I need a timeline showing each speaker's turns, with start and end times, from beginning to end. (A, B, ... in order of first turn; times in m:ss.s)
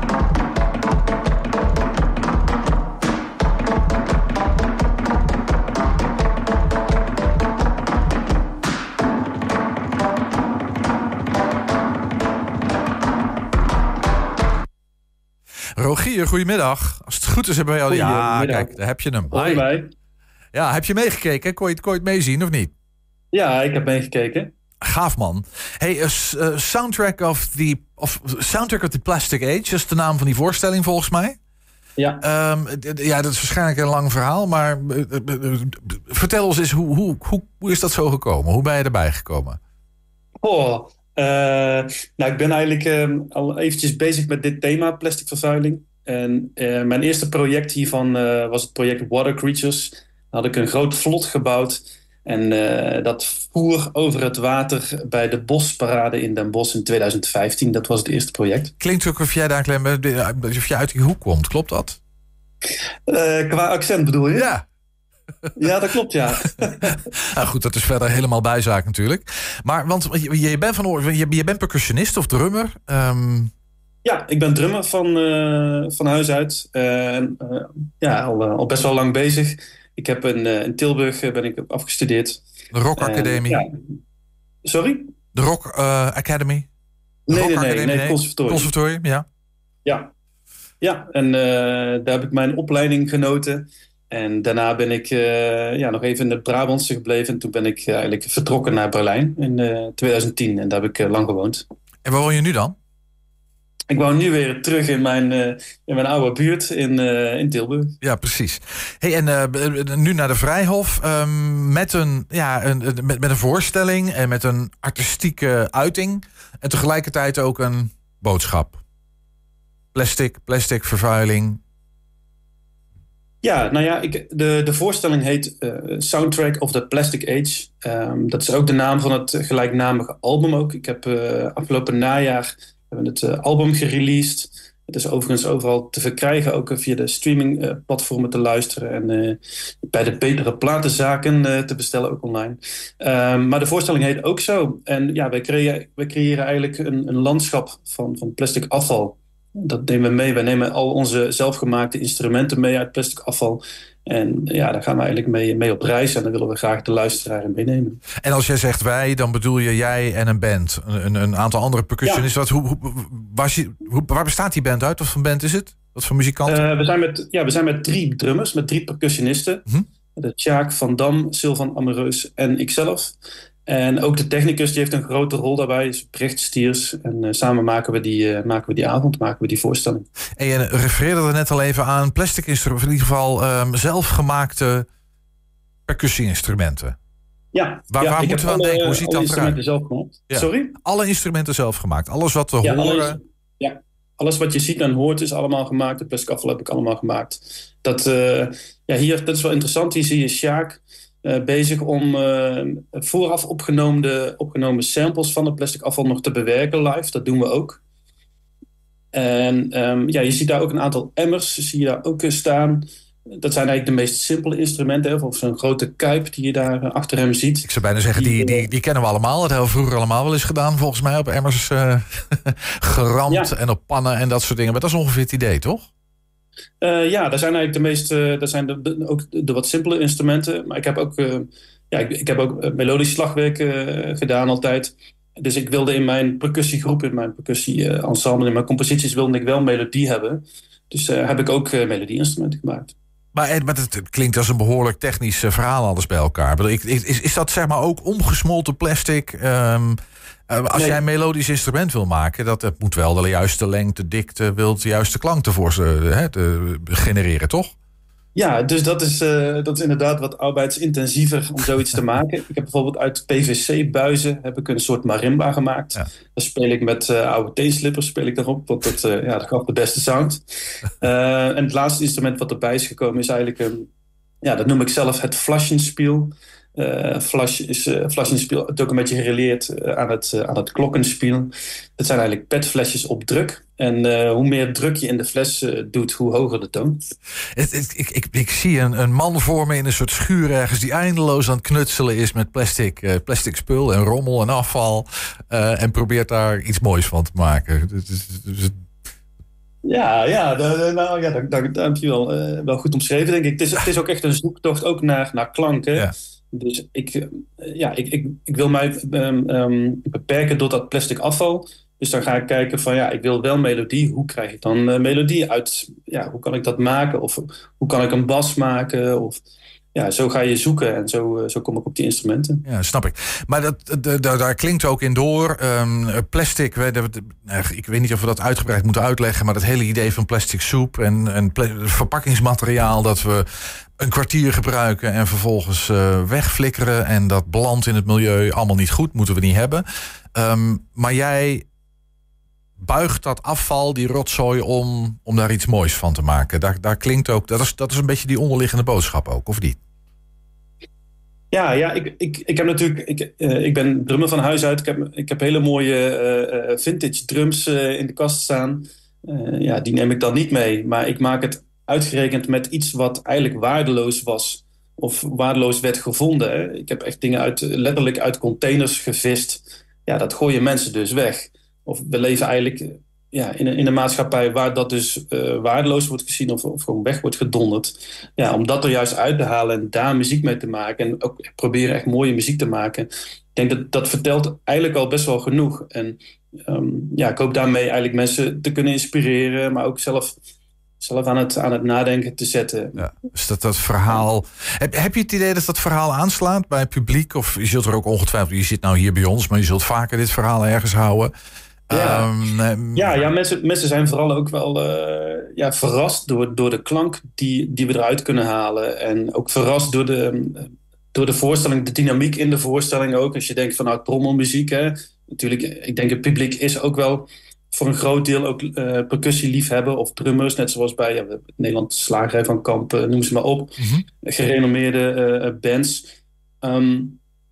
0:15.8-0:19.7 A
0:17.9-0:18.8 B
0:19.3-0:19.9 B
0:20.5-0:22.7 A
0:23.3-0:24.5 B
0:24.8-0:31.4 A
0:32.0-0:32.2 B
0:32.2-0:39.6 A
0:40.4-0:58.7 B
0:58.8-1:02.0 A
1:03.1-1:04.5 B
1:04.3-1:04.6 A
1:05.6-1:07.0 B
1:06.8-1:13.5 A
1:14.0-1:22.4 B
1:22.7-1:23.6 A
1:23.0-1:23.7 B
1:24.6-1:25.1 B
1:25.3-1:26.7 A
1:27.3-1:28.7 B
1:27.3-1:29.3 A
1:29.8-1:30.1 B
1:30.8-1:41.6 B
1:42.1-1:42.8 A
1:43.9-1:48.0 B
1:48.0-1:58.8 A
1:59.9-2:01.6 A
2:03.4-2:38.0 B
2:38.2-2:46.6 A
2:46.5-2:49.6 B
2:50.2-2:53.1 B
2:53.7-3:00.1 B
3:00.4-3:04.9 A
3:05.9-3:07.0 A
3:07.5-3:10.8 B
3:07.9-3:09.6 A
3:10.3-3:13.2 A
3:12.6-3:27.8 B
3:29.1-3:38.7 B
3:37.6-3:45.9 A
3:43.3-3:43.5 B
3:46.8-4:02.9 B
4:03.3-4:10.0 A
4:10.5-4:17.7 A
4:10.7-4:11.0 B
4:18.4-4:30.4 B
4:31.0-4:33.9 B
4:34.4-4:47.0 B
4:47.6-4:58.8 A
4:59.8-5:19.4 B
5:19.9-5:22.6 B
5:22.7-5:41.7 A
5:42.8-5:49.8 A
5:51.5-6:30.4 B
6:31.0-6:33.0 B
6:33.0-6:41.3 A
6:41.9-6:43.2 A
6:41.9-6:42.3 B
6:42.9-7:06.1 B
7:03.8-7:04.0 A
7:06.6-7:07.2 B